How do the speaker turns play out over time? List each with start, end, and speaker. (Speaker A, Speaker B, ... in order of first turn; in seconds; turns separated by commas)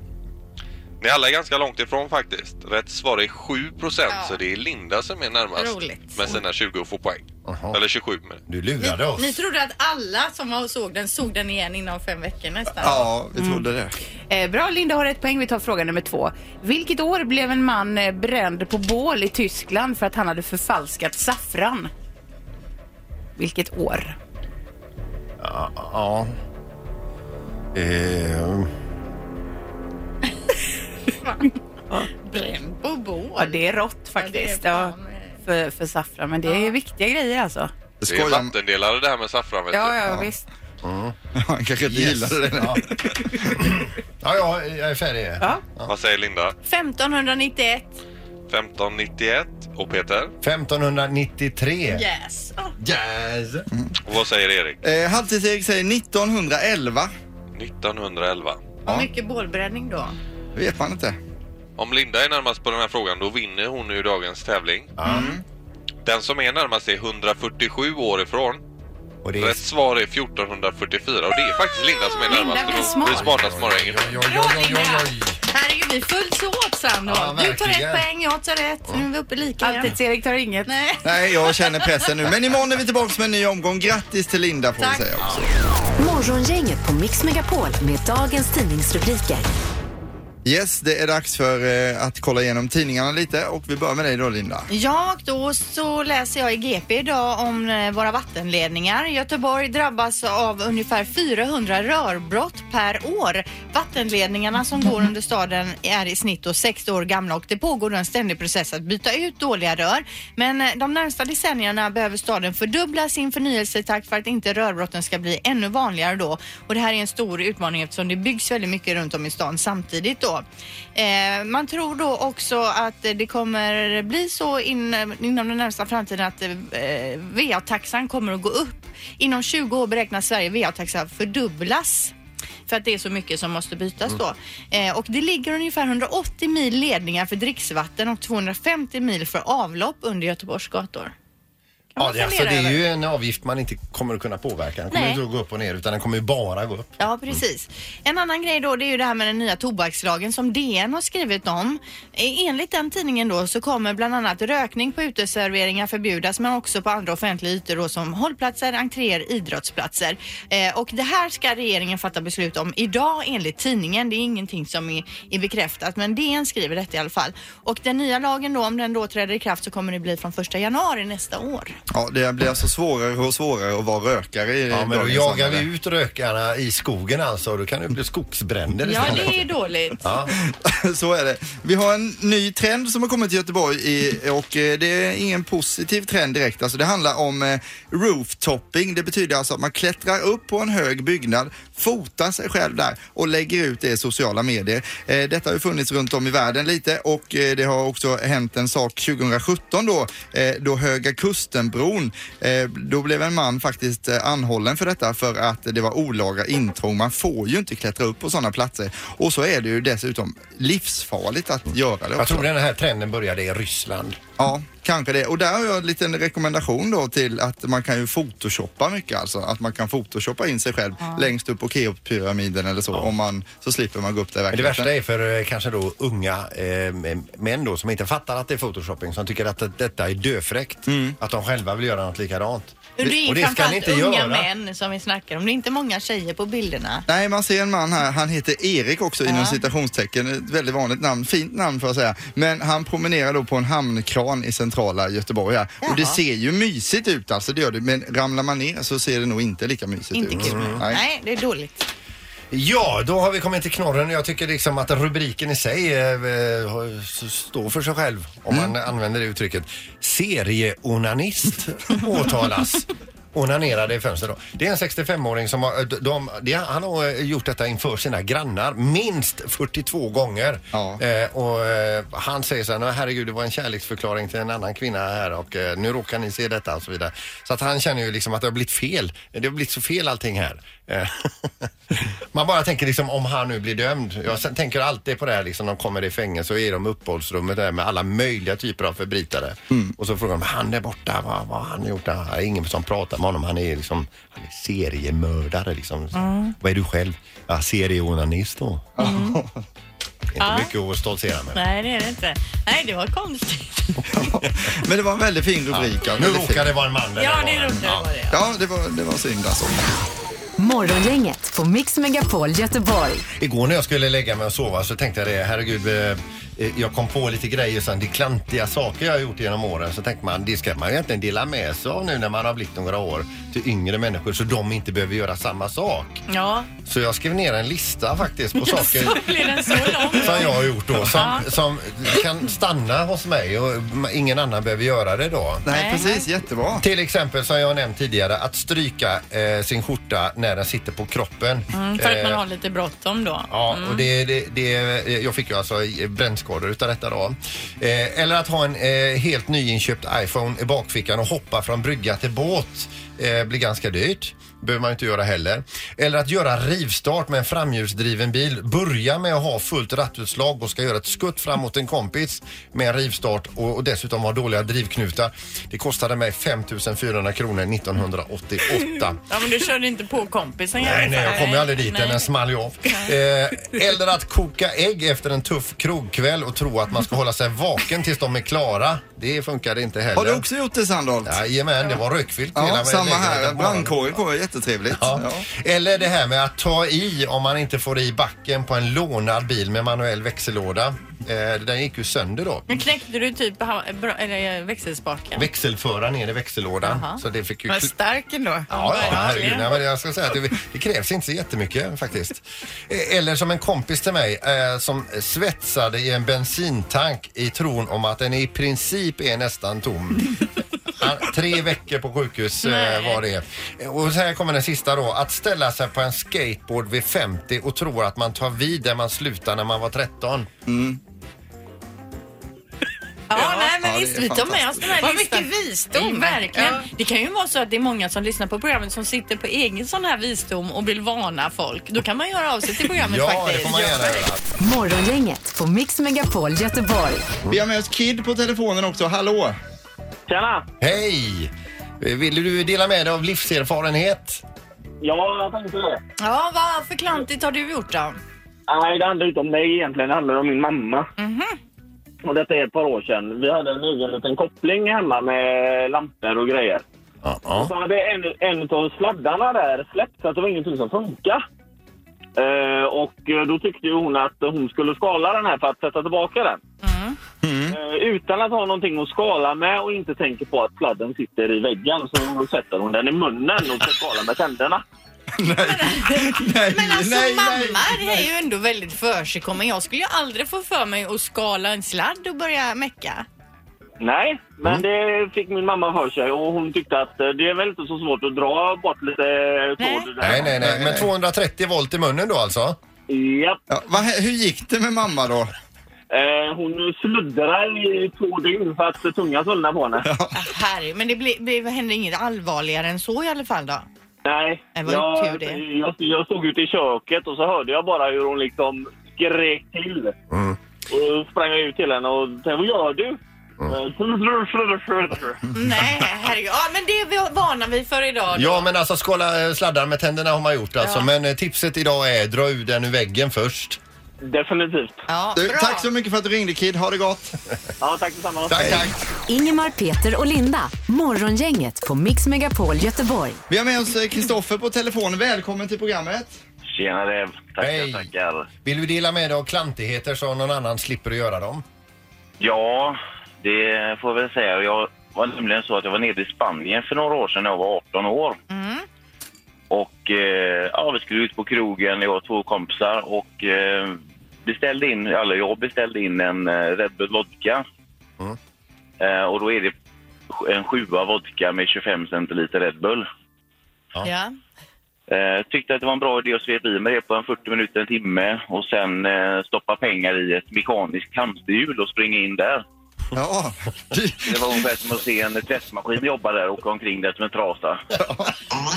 Speaker A: 1.0-8.4, Speaker B: 4.1-4.4, Speaker B: 5.5-6.4, Speaker C: 7.4-7.8, Speaker C: 8.5-9.4, Speaker B: 8.8-13.1, Speaker D: 12.8-13.9, Speaker E: 13.4-13.6, Speaker E: 14.3-21.9, Speaker E: 23.4-24.1, Speaker C: 25.4-26.3, Speaker C: 27.7-28.7, Speaker B: 32.1-35.4, Speaker E: 33.4-34.9, Speaker E: 35.4-37.7, Speaker B: 36.5-36.7, Speaker D: 38.0-38.5, Speaker A: 38.0-40.1, Speaker E: 39.7-40.4, Speaker C: 40.8-41.1, Speaker D: 41.3-43.6, Speaker C: 41.8-42.8, Speaker C: 43.5-45.9, Speaker A: 45.9-46.5, Speaker B: 46.6-48.0, Speaker A: 48.5-50.3, Speaker C: 50.4-52.0, Speaker B: 51.9-52.7, Speaker C: 52.8-53.7, Speaker A: 54.0-54.8, Speaker D: 54.8-57.1, Speaker A: 57.5-58.6, Speaker B: 58.9-60.1, Speaker D: 60.5-61.2, Speaker A: 61.8-64.9, Speaker C: 65.0-65.3, Speaker D: 65.0-65.4, Speaker A: 66.0-68.6, Speaker C: 69.2-69.6, Speaker A: 69.4-74.2, Speaker B: 72.1-73.2, Speaker E: 72.5-72.8, Speaker C: 73.0-75.4, Speaker B: 74.2-80.0, Speaker C: 77.0-78.1, Speaker E: 79.6-80.7, Speaker B: 80.7-82.1, Speaker D: 81.0-85.4, Speaker B: 84.8-85.4, Speaker F: 86.0-89.5, Speaker D: 90.4-94.7, Speaker B: 94.7-120.4, Speaker B: 120.9-132.1, Speaker B: 132.7-141.1, Speaker B: 141.9-142.8, Speaker C: 142.0-147.4, Speaker B: 144.9-145.2, Speaker B: 147.0-171.8, Speaker D: 171.9-175.7, Speaker C: 174.7-179.5, Speaker B: 178.8-180.0, Speaker C: 180.0-180.3, Speaker D: 180.3-212.5, Speaker C: 212.2-214.2, Speaker D: 214.4-224.9, Speaker B: 221.0-221.3, Speaker C: 224.5-234.5, Speaker D: 230.9-231.2, Speaker B: 233.0-237.0, Speaker D: 237.1-251.0, Speaker B: 239.2-239.6, Speaker B: 245.8-246.2, Speaker B: 250.1-251.9, Speaker C: 250.3-250.8, Speaker C: 252.5-298.9, Speaker D: 270.7-271.0, Speaker B: 296.1-296.5, Speaker D: 299.0-299.6, Speaker B: 299.0-299.4, Speaker C: 300.3-301.6, Speaker B: 300.4-300.7, Speaker B: 301.5-304.0, Speaker D: 304.1-306.7, Speaker C: 305.7-308.1, Speaker B: 307.1-308.4, Speaker D: 308.3-309.9, Speaker F: 310.6-313.2, Speaker C: 313.4-326.2, Speaker B: 326.3-326.7, Speaker C: 326.8-335.6, Speaker B: 328.6-331.5, Speaker D: 335.6-336.8, Speaker B: 335.7-336.3, Speaker C: 336.7-342.4, Speaker B: 341.7-344.1, Speaker C: 343.5-369.2, Speaker B: 369.2-372.3, Speaker C: 370.8-380.4, Speaker B: 372.8-373.1, Speaker D: 380.1-381.4, Speaker C: 381.2-384.2, Speaker D: 382.5-385.4, Speaker C: 384.9-392.7, Speaker B: 392.7-395.5, Speaker C: 395.3-397.9, Speaker B: 396.8-399.7, Speaker C: 398.7-410.4, Speaker C: 410.9-420.5, Speaker B: 412.6-413.2, Speaker D: 420.6-421.0, Speaker B: 423.3-434.2, Speaker D: 423.6-425.0, Speaker E: 426.1-426.8, Speaker C: 432.9-434.4, Speaker F: 434.6-437.3, Speaker D: 437.5-439.6, Speaker G: 440.3-440.6, Speaker C: 440.8-444.4, Speaker G: 445.0-446.0, Speaker B: 446.2-448.2, Speaker G: 448.7-451.1, Speaker B: 451.2-451.6, Speaker G: 452.2-456.8, Speaker C: 457.2-457.7, Speaker G: 457.5-461.4, Speaker G: 462.4-466.6, Speaker B: 466.8-467.2, Speaker D: 467.4-467.8, Speaker G: 467.7-474.8, Speaker D: 475.4-478.3, Speaker B: 475.6-483.2, Speaker G: 484.0-490.6, Speaker B: 489.8-490.1, Speaker C: 490.2-492.8, Speaker D: 490.5-491.1, Speaker G: 493.1-493.6, Speaker D: 493.7-495.5, Speaker G: 496.1-500.1, Speaker D: 500.0-500.3, Speaker B: 500.3-503.9, Speaker G: 504.2-510.1, Speaker B: 504.7-505.6, Speaker C: 510.3-510.6, Speaker G: 510.9-515.4, Speaker B: 515.5-518.7, Speaker C: 518.3-523.8, Speaker B: 520.8-521.1, Speaker G: 524.2-525.0, Speaker B: 525.1-525.9, Speaker D: 525.3-527.4, Speaker G: 527.8-528.9, Speaker C: 528.5-528.9, Speaker D: 528.5-528.9, Speaker F: 529.3-533.4, Speaker D: 533.5-536.4, Speaker H: 536.7-538.5, Speaker C: 537.6-538.1, Speaker C: 538.6-541.6, Speaker H: 542.4-548.4, Speaker B: 548.5-548.8, Speaker H: 549.7-557.6, Speaker H: 559.0-559.7, Speaker H: 560.3-563.1, Speaker B: 564.0-564.3, Speaker H: 565.1-572.6, Speaker D: 573.1-574.6, Speaker H: 574.2-577.8, Speaker D: 578.0-578.3